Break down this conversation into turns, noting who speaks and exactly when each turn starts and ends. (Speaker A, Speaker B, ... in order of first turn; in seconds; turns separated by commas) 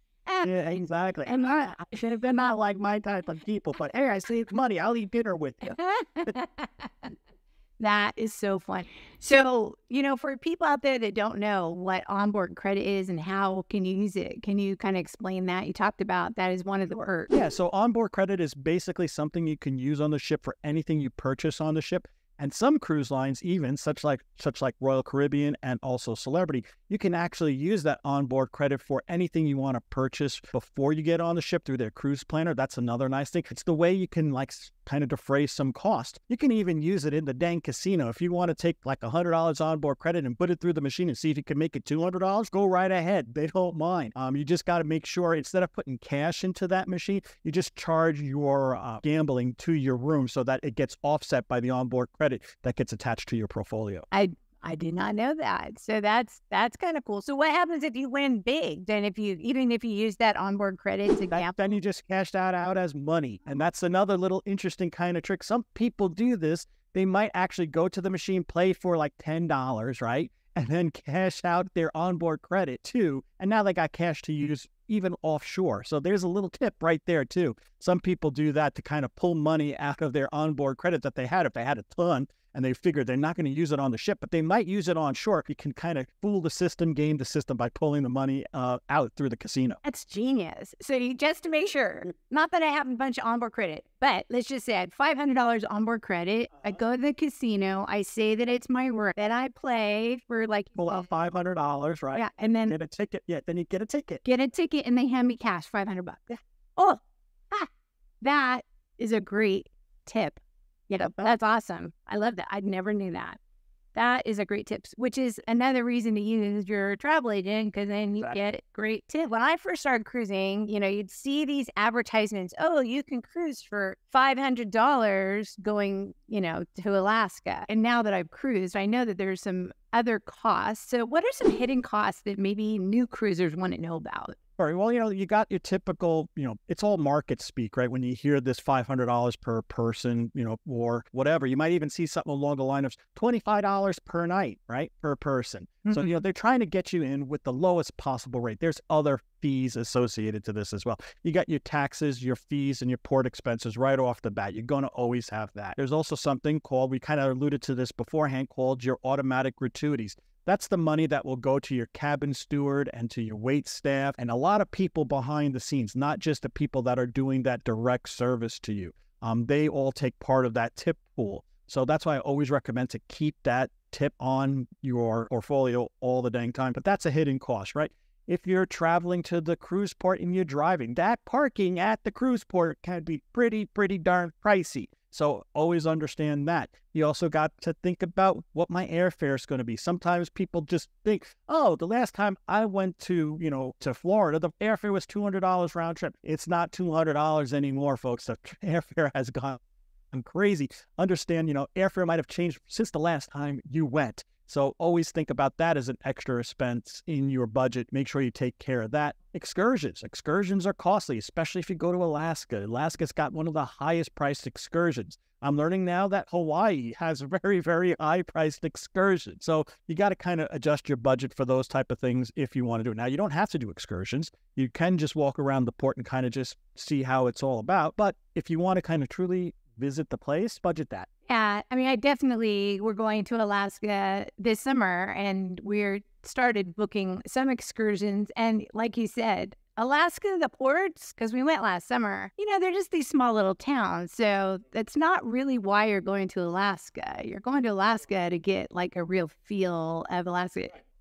Speaker A: 0.4-5.8, Speaker B: 1.3-1.7, Speaker B: 5.6-7.1, Speaker B: 7.8-17.3, Speaker A: 17.3-54.0, Speaker B: 54.1-61.5, Speaker A: 61.3-89.8, Speaker B: 89.8-101.0, Speaker A: 100.8-104.2, Speaker B: 102.1-102.7, Speaker B: 104.2-107.0, Speaker B: 108.2-110.4, Speaker B: 110.9-113.4, Speaker B: 113.9-134.3, Speaker A: 134.6-199.6, Speaker A: 200.1-231.1, Speaker B: 231.3-250.8